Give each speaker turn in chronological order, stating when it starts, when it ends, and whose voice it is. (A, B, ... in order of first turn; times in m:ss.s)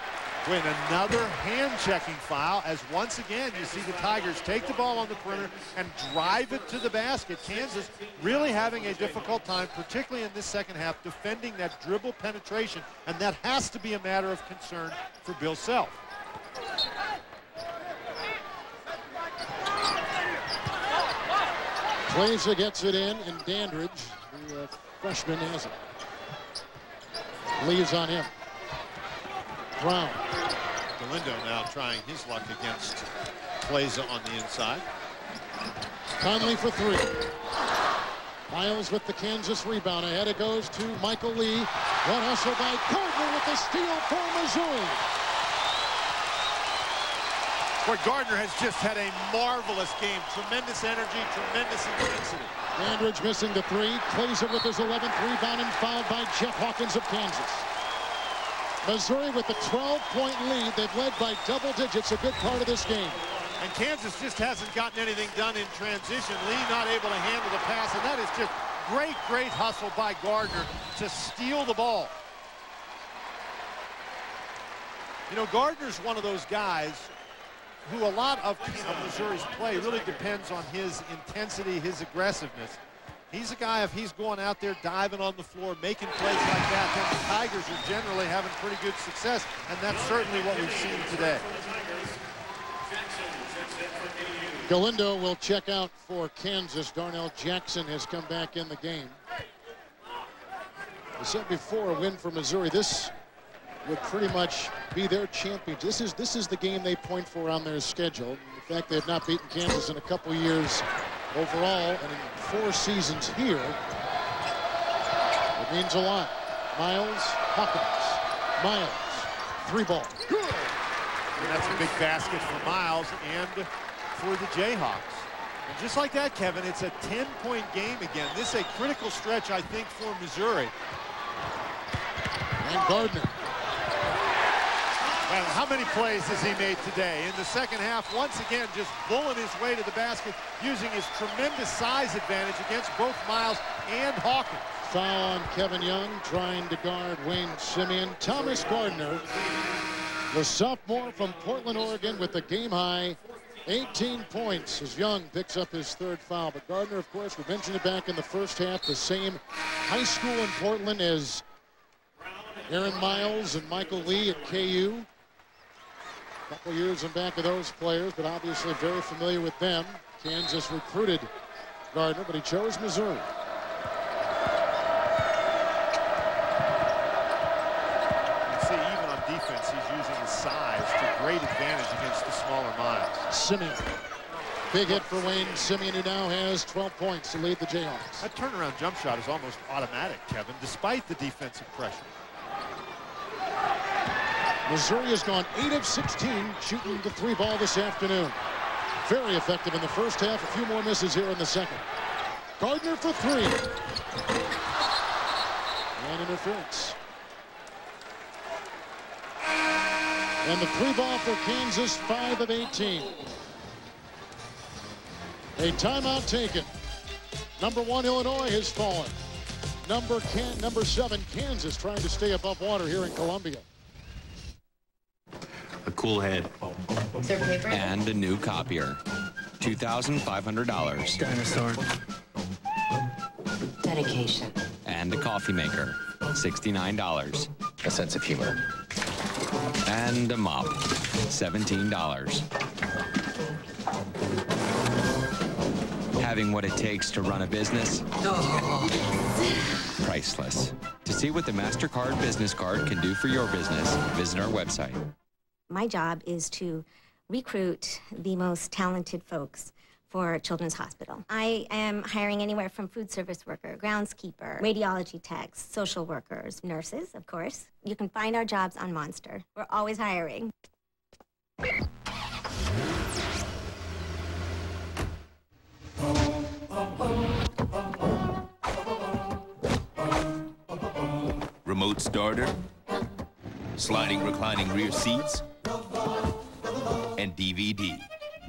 0:00.4-0:16.0 A
0:22.1-0:25.8 B
0:27.6-0:28.3 B
0:29.8-0:30.2 B
0:31.0-0:34.8 A
0:36.2-0:37.3 B
0:38.5-0:45.0 B
0:47.8-0:52.5 A
0:52.8-0:57.6 B
0:58.8-1:03.2 B
1:03.6-1:12.1 A
1:15.3-1:17.1 A
1:17.8-1:22.8 A
1:23.3-1:31.5 A
1:34.6-1:39.2 B
1:41.2-1:43.1 B
1:43.8-1:53.8 B
1:55.6-2:00.2 B
2:01.4-2:10.7 A
2:12.6-2:13.3 B
2:15.3-2:24.8 A
2:24.8-2:29.2 B
2:30.3-2:41.4 B
2:42.7-2:45.1 B
2:46.5-2:51.3 B
2:51.9-2:53.3 B
2:58.4-3:03.2 A
3:03.3-3:03.8 B
3:04.7-3:08.2 B
3:08.2-3:12.1 A
3:14.7-3:18.4 B
3:19.0-3:21.8 B
3:22.6-3:23.6 B
3:26.0-3:27.0 B
3:30.4-3:33.1 B
3:35.6-3:36.7 B
3:37.6-3:39.1 B
3:39.8-3:43.6 B
3:45.9-3:46.4 C
3:47.6-3:49.0 C
3:49.6-3:51.3 C
3:54.8-3:58.6 C
3:59.8-4:02.4 C
4:06.1-4:08.7 C
4:10.0-4:15.0 C
4:15.7-4:30.5 D
4:41.6-4:42.6 E
4:43.8-4:45.4 E
4:47.2-4:48.0 E